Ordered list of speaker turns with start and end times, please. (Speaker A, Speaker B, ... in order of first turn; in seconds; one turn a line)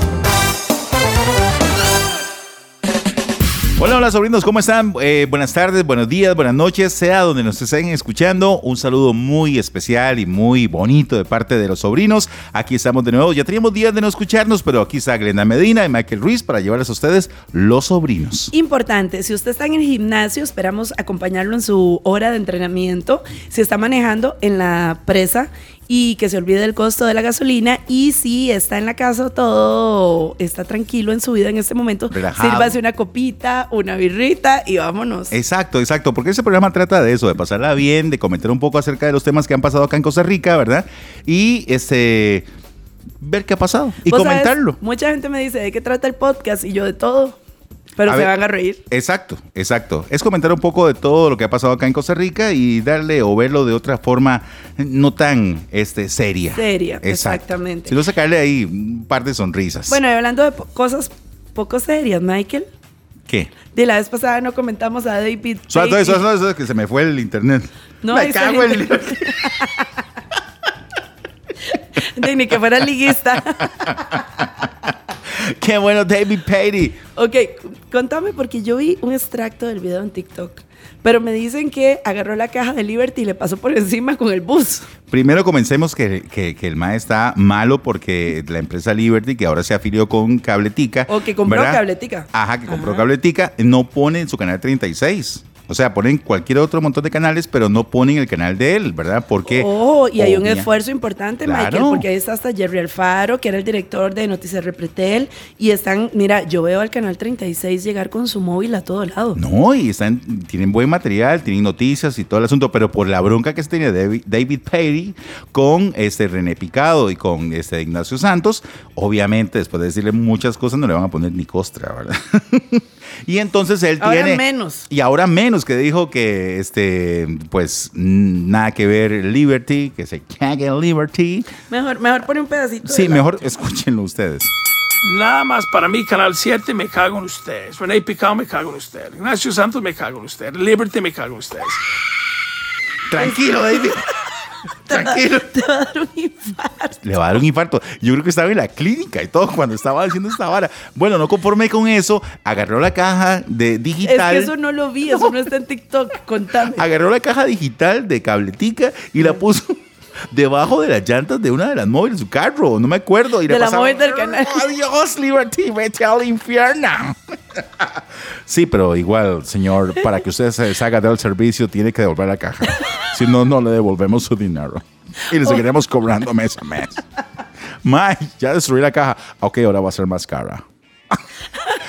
Speaker A: 3.8-18.5
Speaker B: 18.5-35.4
Speaker A: 32.1-32.8
Speaker A: 35.3-42.5
Speaker A: 43.2-44.8
Speaker B: 44.0-47.4
Speaker B: 48.0-48.8
Speaker A: 48.1-48.3
Speaker A: 48.9-60.0
Speaker B: 56.5-58.0
Speaker B: 59.9-62.7
Speaker A: 63.3-63.5
Speaker B: 63.7-66.2
Speaker A: 65.7-69.5
Speaker B: 68.0-70.0
Speaker B: 71.7-74.4
Speaker A: 73.6-77.0
Speaker B: 77.2-84.9
Speaker A: 85.1-100.7
Speaker B: 91.1-93.1
Speaker B: 99.5-109.4
Speaker A: 101.5-102.1
Speaker A: 109.4-131.5
Speaker B: 124.0-124.9
Speaker B: 131.7-133.3
Speaker A: 132.8-134.5
Speaker C: 135.0-141.8
Speaker A: 143.1-144.1
Speaker B: 143.2-144.0
Speaker B: 144.9-147.0
Speaker A: 144.9-145.5
Speaker A: 147.0-154.5
Speaker B: 154.0-156.9
Speaker A: 156.7-177.0
Speaker B: 163.5-164.7
Speaker A: 177.8-181.2